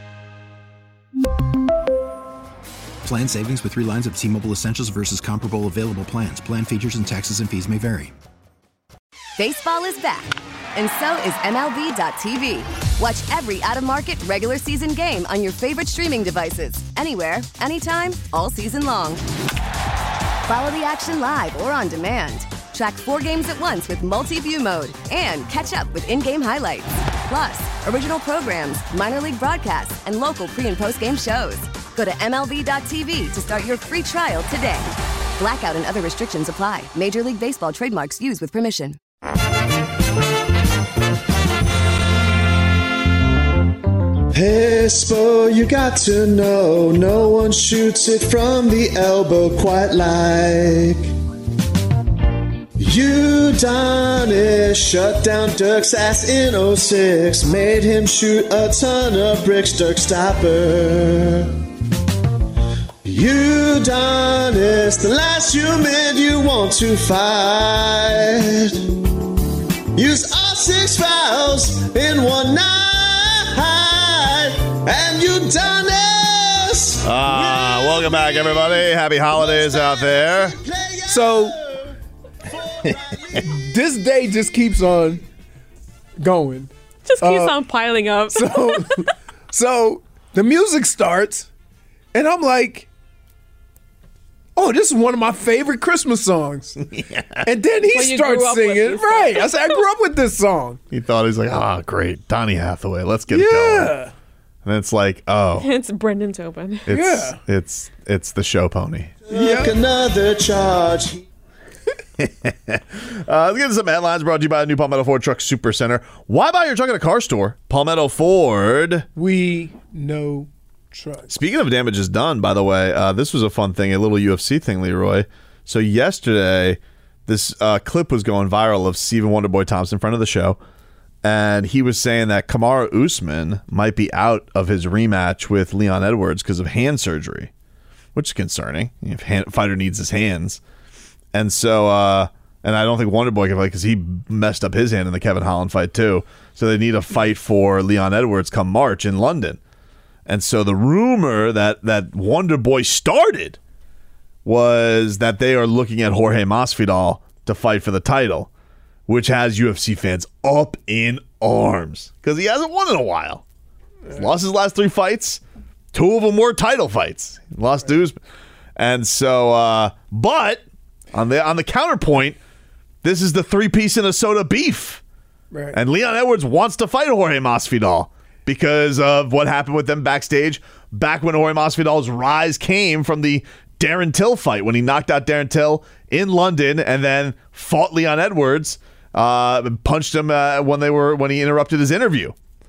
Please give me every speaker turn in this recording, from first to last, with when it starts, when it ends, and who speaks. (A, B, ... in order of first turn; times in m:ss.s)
0:03.0-0:08.1 A
0:09.4-0:19.2 B
0:20.5-0:39.0 B
0:44.3-0:51.1 C
0:52.8-1:01.5 C
1:03.0-1:08.9 C
1:09.9-1:18.7 C
1:17.0-1:20.6 D
1:19.5-1:21.8 C
1:21.1-1:21.6 E
1:23.4-1:25.2 E
1:26.2-1:27.6 E
1:27.0-1:28.8 F
1:28.3-1:31.5 E
1:32.1-1:32.9 E
1:34.6-1:36.8 E
1:36.8-1:37.5 D
1:37.4-1:40.8 E
1:37.9-1:39.8 F
1:40.9-1:43.9 D
1:43.3-1:44.1 E
1:44.6-1:45.7 D
1:45.6-1:46.9 F
1:46.9-1:49.2 D
1:46.9-1:47.4 E
1:49.3-1:51.2 C
1:49.3-1:49.8 E
1:52.2-1:59.0 D
1:59.1-2:01.3 E
2:01.3-2:10.6 D
2:11.2-2:17.5 D
2:18.1-2:20.6 D
2:21.3-2:29.6 D
2:30.2-2:33.6 D
2:34.4-2:38.5 D
2:39.1-2:43.4 D
2:44.1-2:45.4 D
2:45.9-2:48.2 D
2:48.8-2:52.4 D
2:53.0-2:55.0 D
2:55.5-2:55.8 E
2:55.7-3:12.4 D